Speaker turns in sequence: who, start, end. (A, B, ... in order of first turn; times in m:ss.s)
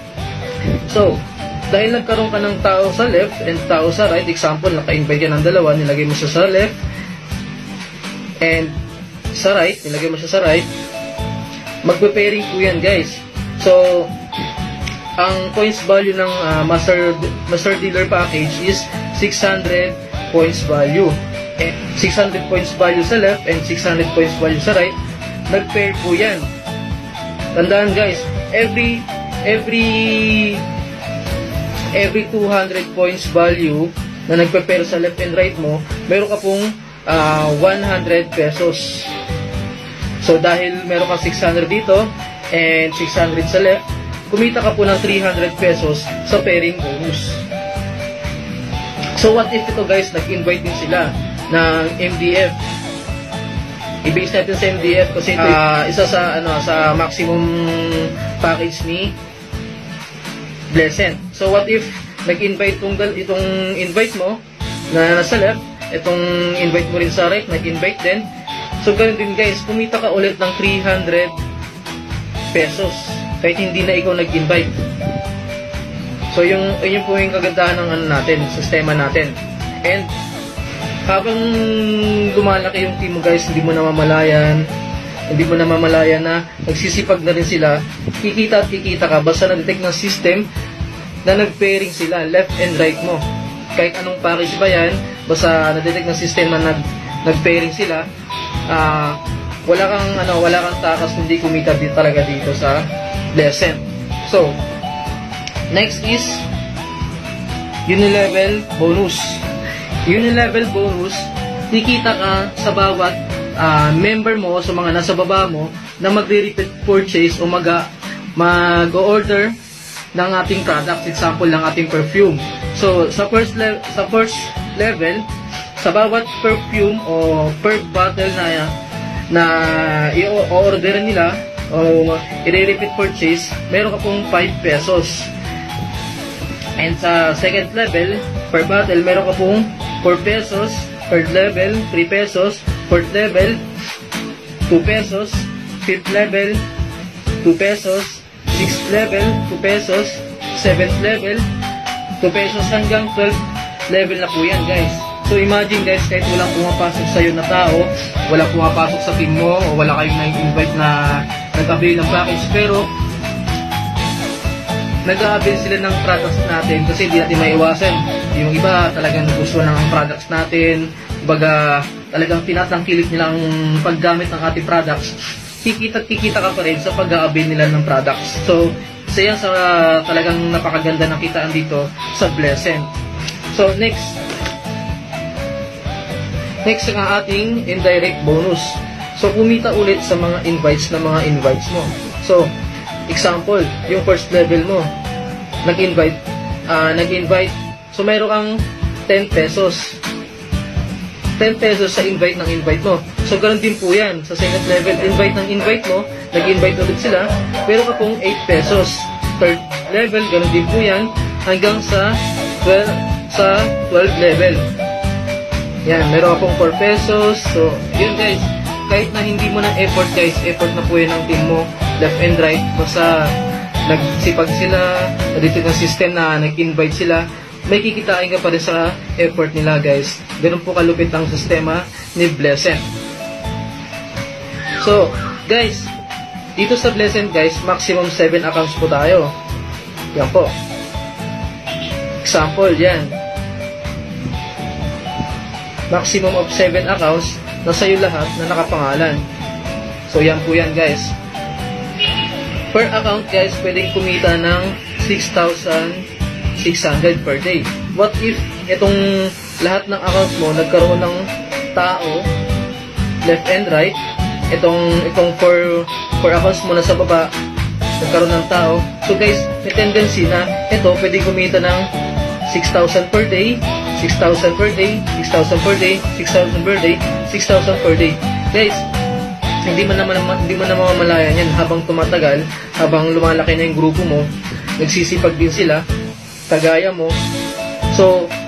0:00.8-0:06.7 A
0:08.4-0:08.8 A
0:09.3-0:10.7 A
0:11.8-0:14.1 A
0:15.2-0:24.9 A
0:25.5-0:26.5 A
0:27.5-0:30.6 A
0:31.9-0:39.1 A
0:40.2-0:47.4 A
0:49.2-0:52.6 A
0:54.0-0:59.1 A
1:00.7-1:08.3 A
1:08.8-1:11.4 A
1:12.5-1:14.8 A
1:16.3-1:20.1 A
1:21.0-1:24.7 A
1:25.3-1:30.5 A
1:31.2-1:33.2 A
1:33.7-1:38.0 A
1:38.7-1:44.6 A
1:45.7-1:46.5 A
1:47.8-1:49.4 A
1:50.0-1:59.5 A
2:00.1-2:08.7 A
2:09.3-2:15.3 A
2:16.8-2:23.6 A
2:24.7-2:26.6 A
2:27.4-2:31.5 A
2:32.2-2:42.9 A
2:45.0-3:02.9 A
3:03.5-3:04.2 A
3:06.6-3:12.5 A
3:13.1-3:14.9 A
3:15.6-3:20.0 A
3:21.4-3:34.6 A
3:35.8-3:43.3 A
3:43.9-3:52.9 A
3:54.8-3:55.9 A
3:56.6-3:59.3 A
4:00.1-4:00.5 A
4:02.2-4:03.2 A
4:05.9-4:09.2 A
4:10.1-4:11.2 A
4:12.7-4:16.1 A
4:16.6-4:22.3 A
4:23.2-4:24.0 A
4:24.5-4:27.3 A
4:28.0-4:31.9 A
4:32.5-4:38.8 A
4:39.6-4:45.8 A
4:46.5-4:47.2 A
4:47.9-4:48.3 A